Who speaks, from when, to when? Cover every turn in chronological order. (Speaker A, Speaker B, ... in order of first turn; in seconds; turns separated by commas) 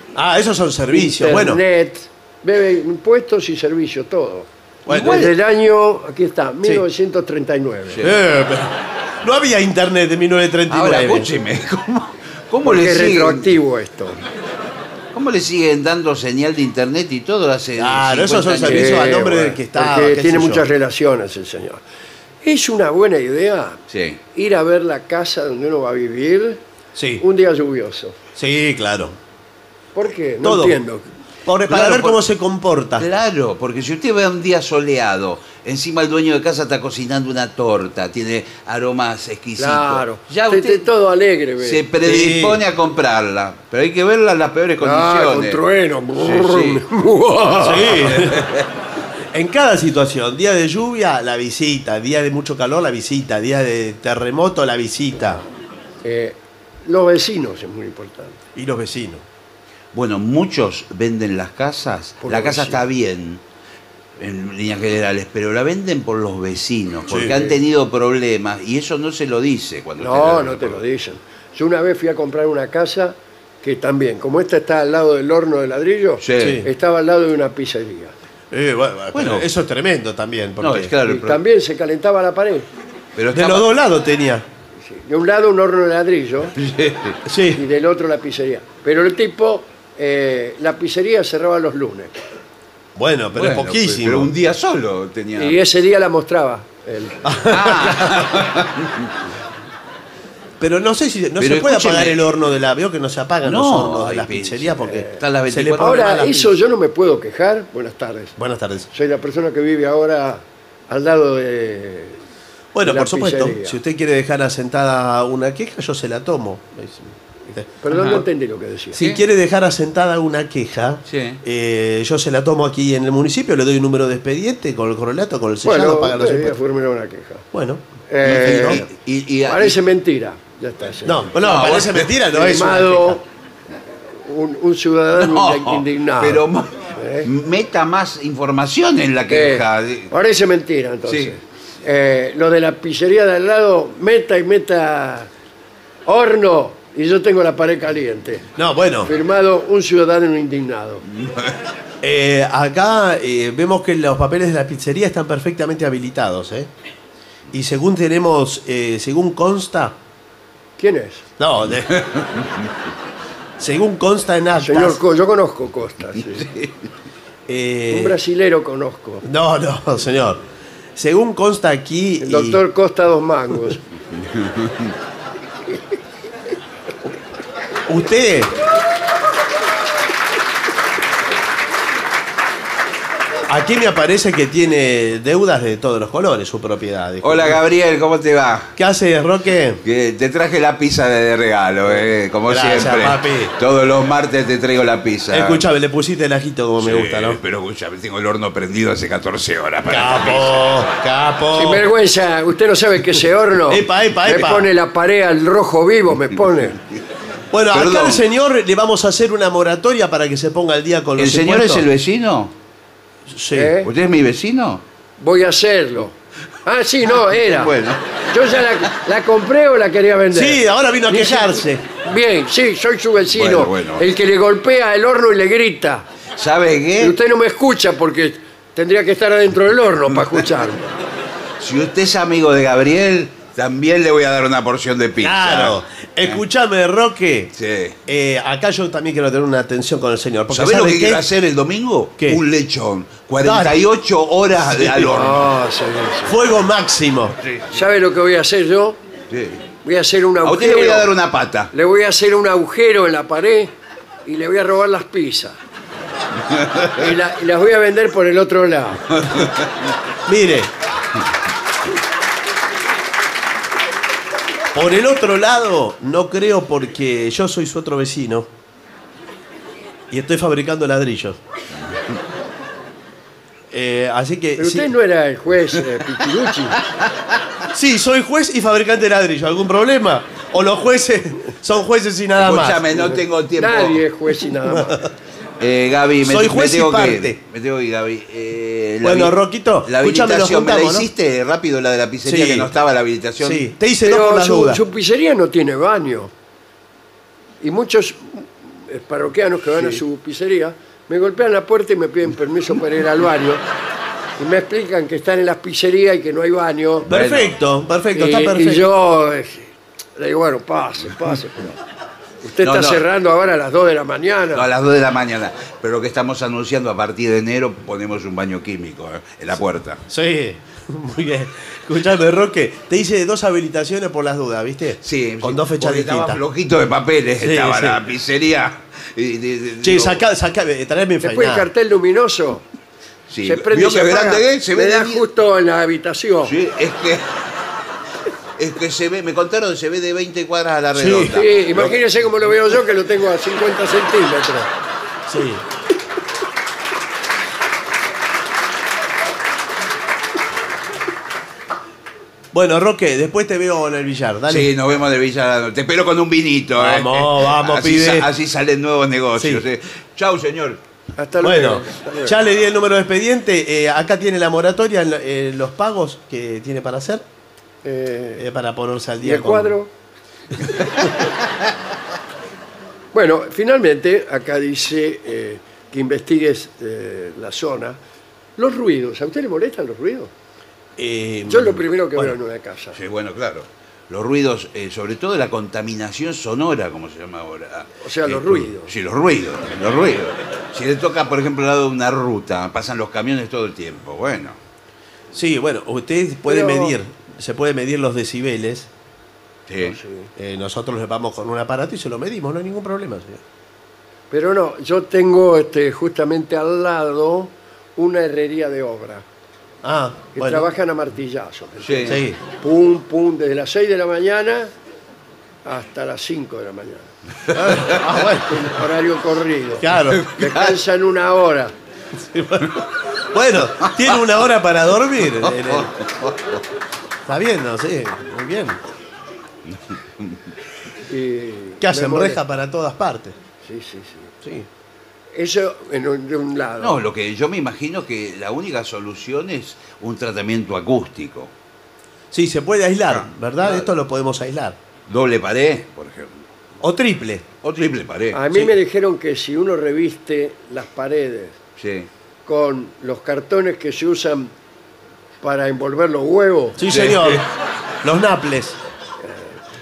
Speaker A: 0.1-1.6, Speaker B: 0.9-8.0, Speaker A: 4.9-5.3, Speaker C: 4.9-5.3, Speaker A: 8.0-11.3, Speaker C: 10.7-13.5, Speaker B: 12.6-14.2, Speaker C: 15.1-19.1, Speaker A: 17.8-20.6, Speaker B: 18.7-21.8, Speaker B: 22.4-23.8, Speaker C: 23.9-24.2, Speaker B: 24.3-26.6, Speaker A: 27.0-27.2, Speaker B: 27.2-28.2, Speaker A: 28.4-29.2, Speaker B: 29.9-31.1, Speaker A: 30.4-30.8, Speaker A: 31.5-33.1, Speaker C: 31.7-32.2, Speaker C: 33.0-40.9, Speaker B: 39.6-41.8, Speaker C: 41.6-45.6, Speaker A: 42.0-42.6, Speaker B: 44.8-48.1, Speaker C: 46.2-46.8, Speaker A: 47.6-48.5, Speaker C: 48.1-48.6, Speaker A: 49.3-55.4, Speaker B: 56.0-58.4, Speaker A: 58.5-59.2, Speaker C: 59.9-63.4, Speaker B: 62.2-62.8, Speaker C: 64.2-70.8, Speaker A: 67.1-67.5, Speaker B: 70.0-78.1, Speaker C: 76.2-76.6, Speaker A: 76.4-76.7, Speaker A: 78.5-80.9, Speaker C: 79.1-79.5, Speaker C: 80.6-81.4, Speaker B: 81.0-82.7, Speaker C: 83.2-83.7, Speaker A: 83.3-84.5, Speaker B: 84.8-86.5, Speaker C: 86.6-87.2, Speaker A: 87.3-87.6, Speaker B: 87.5-92.1, Speaker A: 93.0-94.3, Speaker C: 93.3-95.6, Speaker B: 95.4-97.5, Speaker A: 97.2-98.2, Speaker C: 97.5-99.1, Speaker A: 100.6-106.5, Speaker C: 101.4-102.2, Speaker C: 103.4-106.3, Speaker B: 104.9-105.2, Speaker B: 105.8-108.4, Speaker A: 108.4-108.9, Speaker B: 108.9-112.2, Speaker A: 112.7-118.2, Speaker B: 112.8-113.8, Speaker B: 117.8-119.0, Speaker A: 118.9-126.6, Speaker C: 119.0-119.2, Speaker C: 121.1-121.4, Speaker B: 125.6-127.5, Speaker A: 127.5-128.8, Speaker B: 128.1-128.8, Speaker C: 128.2-129.8, Speaker B: 129.5-131.7, Speaker A: 131.1-133.2, Speaker C: 131.4-132.1, Speaker B: 132.3-133.2, Speaker B: 134.2-137.3, Speaker C: 135.2-140.1, Speaker B: 139.3-145.3, Speaker C: 141.1-141.3, Speaker B: 146.1-148.5, Speaker A: 148.6-149.1, Speaker B: 149.1-151.0, Speaker A: 152.0-156.7, Speaker A: 157.5-160.0, Speaker B: 160.8-161.2, Speaker A: 161.4-162.0, Speaker C: 162.0-162.3, Speaker A: 163.6-165.0, Speaker B: 164.6-166.5, Speaker A: 167.5-168.2, Speaker B: 167.9-169.2, Speaker A: 169.2-170.4, Speaker A: 171.0-172.6, Speaker B: 172.2-173.8, Speaker C: 174.3-174.9, Speaker A: 177.9-178.6, Speaker A: 183.5-187.6, Speaker C: 187.2-188.8, Speaker A: 188.8-189.8, Speaker C: 189.8-195.6, Speaker A: 192.5-193.5, Speaker A: 195.3-197.4, Speaker C: 196.8-200.7, Speaker A: 199.9-201.9, Speaker B: 201.5-206.8, Speaker A: 203.7-204.7, Speaker A: 207.5-211.9, Speaker C: 207.7-208.2, Speaker C: 211.2-212.5, Speaker A: 213.3-213.8, Speaker B: 213.5-213.9, Speaker C: 213.8-214.8, Speaker B: 215.2-217.7, Speaker C: 217.2-218.2, Speaker B: 218.3-226.1, Speaker A: 220.3-221.8, Speaker C: 223.3-224.1, Speaker C: 226.4-227.2, Speaker B: 227.0-230.9, Speaker C: 231.6-236.4, Speaker A: 235.2-237.5, Speaker C: 237.6-238.0, Speaker A: 238.1-241.2, Speaker C: 240.5-245.5, Speaker A: 243.4-243.8, Speaker A: 244.6-245.1, Speaker B: 245.1-246.4, Speaker A: 246.3-247.4, Speaker C: 247.4-247.8, Speaker B: 247.7-249.0, Speaker C: 249.3-249.6, Speaker B: 249.8-251.1, Speaker C: 250.4-251.7, Speaker B: 251.7-253.7, Speaker B: 254.2-255.6, Speaker C: 256.6-256.9, Speaker B: 256.9-259.2, Speaker A: 260.3-260.7, Speaker A: 264.7-268.5, Speaker A: 270.1-271.4, Speaker A: 273.7-274.9, Speaker B: 274.6-276.8, Speaker A: 277.7-283.0, Speaker C: 282.4-284.0, Speaker B: 283.6-285.1, Speaker A: 284.7-285.1, Speaker C: 285.6-293.7, Speaker A: 286.2-287.4, Speaker A: 289.0-291.1, Speaker A: 292.2-292.7, Speaker A: 293.4-294.8, Speaker B: 294.0-296.3, Speaker B: 297.6-303.6, Speaker B: 304.4-307.1, Speaker A: 307.1-308.9, Speaker C: 307.1-307.6, Speaker B: 308.1-311.8, Speaker B: 312.4-314.7, Speaker C: 312.6-313.0, Speaker C: 314.5-320.0, Speaker A: 320.1-326.4, Speaker C: 325.0-330.2, Speaker A: 327.4-328.0, Speaker A: 329.8-331.7, Speaker B: 331.2-332.6, Speaker C: 333.3-335.2, Speaker B: 333.4-336.5, Speaker C: 336.4-337.3, Speaker C: 338.6-342.0, Speaker A: 340.9-341.4, Speaker B: 341.3-344.7, Speaker A: 345.3-345.6, Speaker A: 352.5-354.7, Speaker C: 354.5-360.8, Speaker A: 356.8-358.3, Speaker A: 359.4-359.6, Speaker B: 361.2-362.4, Speaker A: 361.4-367.2, Speaker B: 367.8-368.4, Speaker A: 368.4-369.8, Speaker B: 369.2-369.9, Speaker B: 373.1-378.0, Speaker B: 378.6-380.3, Speaker A: 381.0-382.4, Speaker B: 381.5-383.0, Speaker C: 382.9-394.6, Speaker B: 388.0-388.9, Speaker A: 395.3-398.9, Speaker B: 396.5-397.0, Speaker C: 399.7-400.0, Speaker B: 399.8-400.3, Speaker A: 400.4-403.4, Speaker B: 404.3-409.2, Speaker A: 409.8-410.7, Speaker B: 410.4-414.7, Speaker C: 411.8-412.2, Speaker A: 412.1-412.4, Speaker B: 415.6-421.7, Speaker A: 417.5-418.7, Speaker A: 419.8-420.3, Speaker C: 420.2-420.7, Speaker A: 422.2-425.9, Speaker C: 425.4-426.6, Speaker A: 427.3-428.8, Speaker C: 429.7-430.4, Speaker B: 431.1-432.4, Speaker A: 431.8-433.4, Speaker B: 433.6-434.3, Speaker A: 434.4-434.7, Speaker B: 435.3-437.0, Speaker C: 436.8-441.5, Speaker A: 442.3-444.8, Speaker C: 443.1-443.9, Speaker C: 445.1-446.4, Speaker A: 446.8-447.5, Speaker C: 447.6-448.7, Speaker B: 448.3-451.6, Speaker C: 451.8-452.1, Speaker B: 452.5-454.5, Speaker B: 455.4-456.8, Speaker A: 456.8-457.5, Speaker C: 456.9-457.4, Speaker A: 458.0-458.8, Speaker B: 459.2-459.6